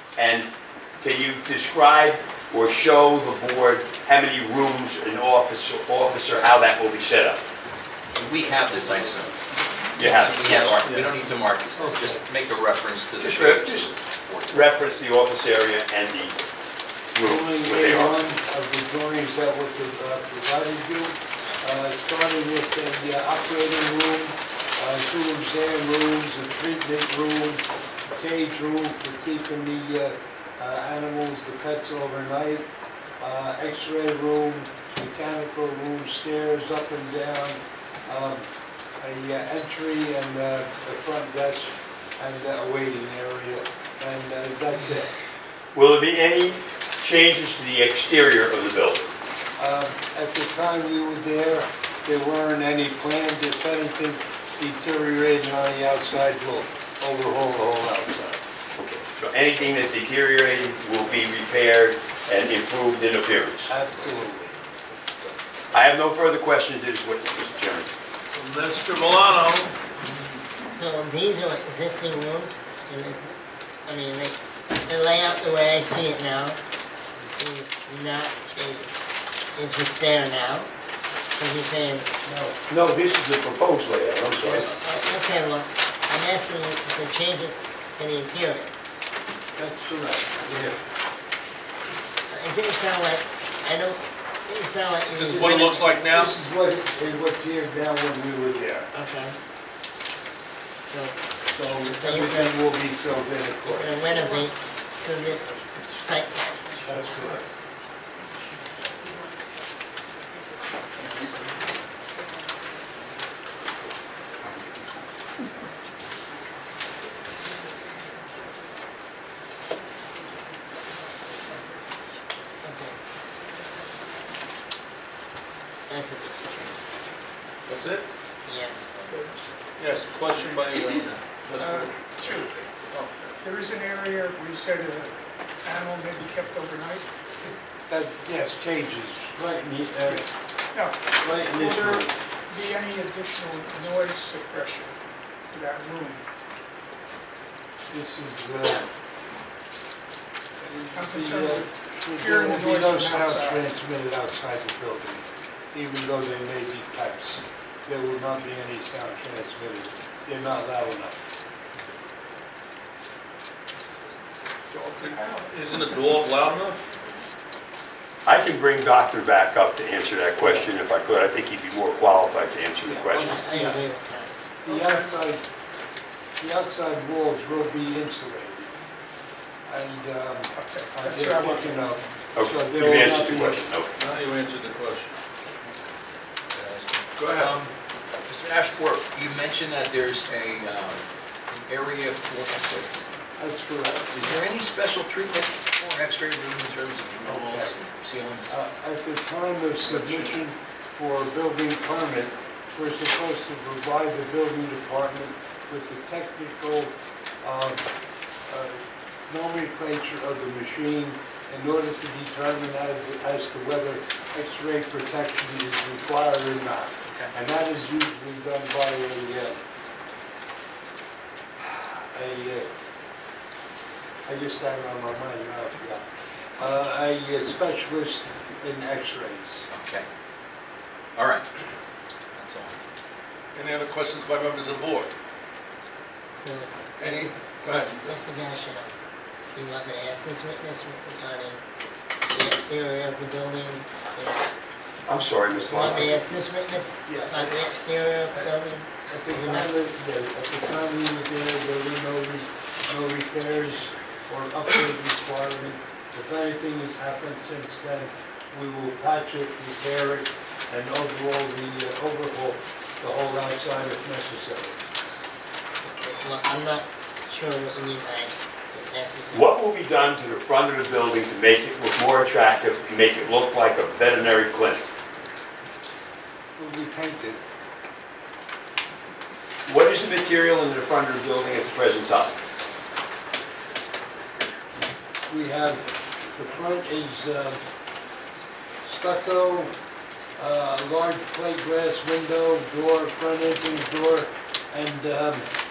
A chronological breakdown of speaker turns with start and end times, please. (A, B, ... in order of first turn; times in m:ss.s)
0:00.2-0:00.5 A
0:01.0-0:07.4 A
0:08.2-0:09.4 B
0:08.6-0:08.9 C
0:10.0-0:14.9 B
0:10.0-0:10.9 A
0:11.8-0:12.2 C
0:13.2-0:13.9 A
0:14.5-0:16.4 A
0:17.1-0:18.2 A
0:17.2-0:32.7 C
0:33.2-0:45.1 C
0:45.7-0:49.1 A
0:49.6-0:58.4 C
0:58.8-1:03.8 A
1:03.7-1:04.6 C
1:05.7-1:07.9 A
1:08.3-1:09.8 D
1:10.6-1:13.3 E
1:13.8-1:16.6 E
1:17.4-1:19.0 E
1:19.5-1:20.7 E
1:21.3-1:22.1 E
1:22.2-1:22.6 C
1:22.7-1:24.8 A
1:24.4-1:24.9 C
1:24.8-1:28.7 E
1:29.6-1:30.9 C
1:32.3-1:35.8 E
1:35.1-1:36.4 D
1:35.3-1:38.9 C
1:38.9-1:39.4 E
1:40.8-1:41.2 E
1:41.5-1:44.0 C
1:41.8-1:42.6 E
1:43.6-1:46.6 E
1:44.2-1:44.4 F
1:45.0-1:47.5 B
1:46.8-1:47.4 C
1:46.9-1:47.4 F
1:48.1-1:48.6 B
1:51.2-1:51.5 F
1:54.4-1:54.9 B
1:57.9-1:58.5 F
2:01.1-2:01.6 F
2:02.6-2:03.0 E
2:03.4-2:03.7 F
2:05.9-2:06.7 E
2:07.7-2:08.1 D
2:08.4-2:08.8 E
2:08.9-2:09.4 B
2:09.8-2:12.1 D
2:11.6-2:12.6 F
2:12.9-2:13.3 D
2:13.4-2:17.1 F
2:17.9-2:20.3 C
2:20.7-2:25.0 F
2:21.2-2:22.1 C
2:25.5-2:26.2 F
2:27.9-2:28.9 C
2:30.6-2:41.2 C
2:30.9-2:33.7 F
2:44.7-2:46.8 D
2:44.9-2:47.2 F
2:48.2-2:53.4 A
2:50.4-2:50.7 C
2:52.8-2:53.9 C
2:53.2-2:54.5 E
2:54.6-2:55.4 C
2:56.4-2:58.7 C
2:59.7-3:03.7 C
3:00.5-3:01.9 F
3:02.4-3:03.9 A
3:04.0-3:05.1 D
3:06.5-3:13.1 B
3:07.2-3:07.6 D
3:13.4-3:14.4 C
3:14.1-3:18.5 B
3:17.2-3:17.7 C
3:18.5-3:27.9 C
3:19.8-3:20.3 D
3:28.5-3:39.6 C
3:37.1-3:37.3 B
3:41.6-3:42.7 C
3:44.3-3:46.0 C
3:46.6-3:49.7 C
3:49.7-3:50.1 B
3:51.2-3:51.5 B
3:52.4-3:52.8 B
3:53.5-3:55.1 D
3:56.3-3:58.9 E
3:57.0-3:58.1 D
3:59.5-4:01.6 E
4:02.3-4:04.5 E
4:05.1-4:06.2 A
4:05.6-4:09.7 E
4:05.8-4:06.1 C
4:07.1-4:07.7 C
4:09.0-4:24.8 C
4:25.8-4:29.5 E
4:29.3-4:34.8 A
4:36.6-4:37.4 C
4:39.7-4:42.4 A
4:45.3-4:47.6 C
4:48.8-4:49.7 C
4:50.4-4:55.5 C